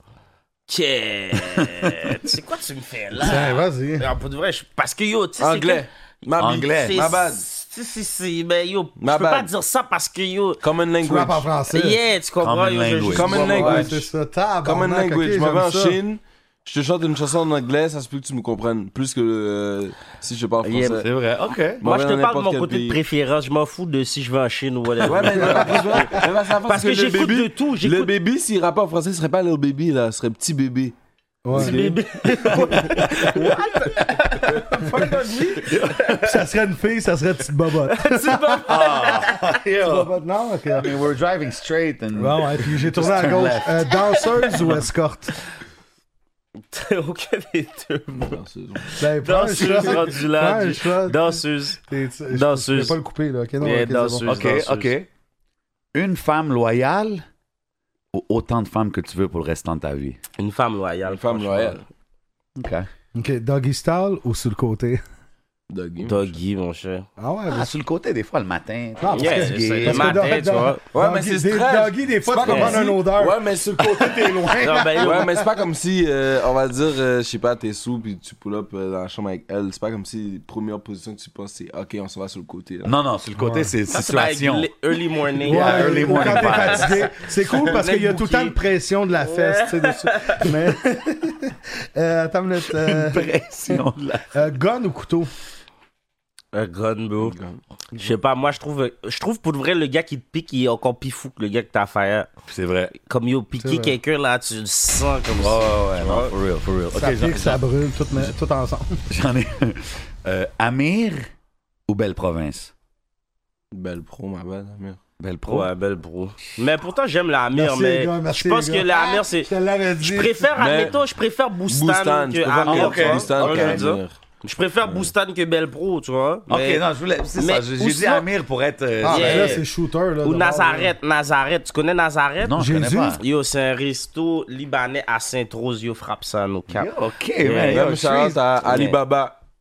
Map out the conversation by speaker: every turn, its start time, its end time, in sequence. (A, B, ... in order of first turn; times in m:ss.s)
0:00.7-0:05.8 A
0:01.6-0:01.9 B
0:03.2-0:04.1 C
0:05.4-0:07.4 D
0:06.4-0:07.0 B
0:06.4-0:10.6 A
0:09.0-0:09.5 D
0:10.6-0:11.5 D
0:11.0-0:12.0 C
0:11.7-0:13.9 A
0:12.4-0:13.8 B
0:13.1-0:14.0 D
0:13.3-0:16.0 C
0:14.6-0:21.1 D
0:20.6-0:21.0 A
0:21.0-0:21.8 B
0:21.8-0:23.0 D
0:21.8-0:28.1 A
0:25.0-0:31.0 D
0:25.3-0:26.2 C
0:31.4-0:31.8 C
0:31.5-0:33.6 D
0:31.5-0:36.4 A
0:32.4-0:33.0 B
0:32.5-0:33.3 C
0:34.5-0:35.0 D
0:34.7-0:35.5 C
0:35.6-0:36.4 B
0:36.2-0:39.2 C
0:37.8-0:39.4 A
0:38.6-0:40.1 B
0:39.8-0:41.0 C
0:40.7-0:44.0 B
0:42.2-0:45.3 C
0:46.7-0:53.0 A
0:48.2-0:48.9 D
0:49.0-0:54.3 C
0:53.6-0:54.9 A
0:54.2-0:55.1 B
0:55.9-0:57.2 B
0:58.1-1:00.2 B
1:00.4-1:01.8 A
1:01.1-1:01.8 D
1:02.6-1:02.9 B
1:03.1-1:05.0 C
1:05.7-1:06.2 D
1:06.0-1:07.0 A
1:07.2-1:07.7 C
1:07.5-1:10.4 B
1:09.0-1:15.4 C
1:09.1-1:10.8 A
1:10.9-1:14.2 D
1:12.4-1:12.9 A
1:14.6-1:15.3 A
1:15.0-1:22.9 D
1:22.8-1:24.7 B
1:23.4-1:23.7 C
1:23.9-1:28.6 A
1:25.4-1:27.1 B
1:25.4-1:33.2 C
1:29.2-1:30.5 A
1:32.7-1:34.3 B
1:34.3-1:35.3 C
1:36.5-1:37.4 A
1:37.2-1:37.6 D
1:37.9-1:42.3 A
1:42.5-1:42.9 B
1:42.9-1:46.3 A
1:43.6-1:44.0 C
1:45.3-1:47.6 B
1:46.9-1:49.0 C
1:49.1-1:51.3 B
1:51.9-1:52.7 B
1:53.7-1:55.0 D
1:55.2-1:55.7 B
1:55.5-2:06.8 A
1:57.5-2:00.5 C
2:00.5-2:00.9 D
2:01.7-2:04.2 D
2:02.6-2:03.8 B
2:06.5-2:09.6 B
2:07.3-2:08.3 A
2:09.0-2:10.9 C
2:09.0-2:09.6 A
2:10.2-2:12.6 A
2:12.4-2:13.2 B
2:12.6-2:13.2 C
2:13.1-2:17.8 A
2:16.7-2:18.4 B
2:17.6-2:19.4 D
2:18.7-2:19.0 A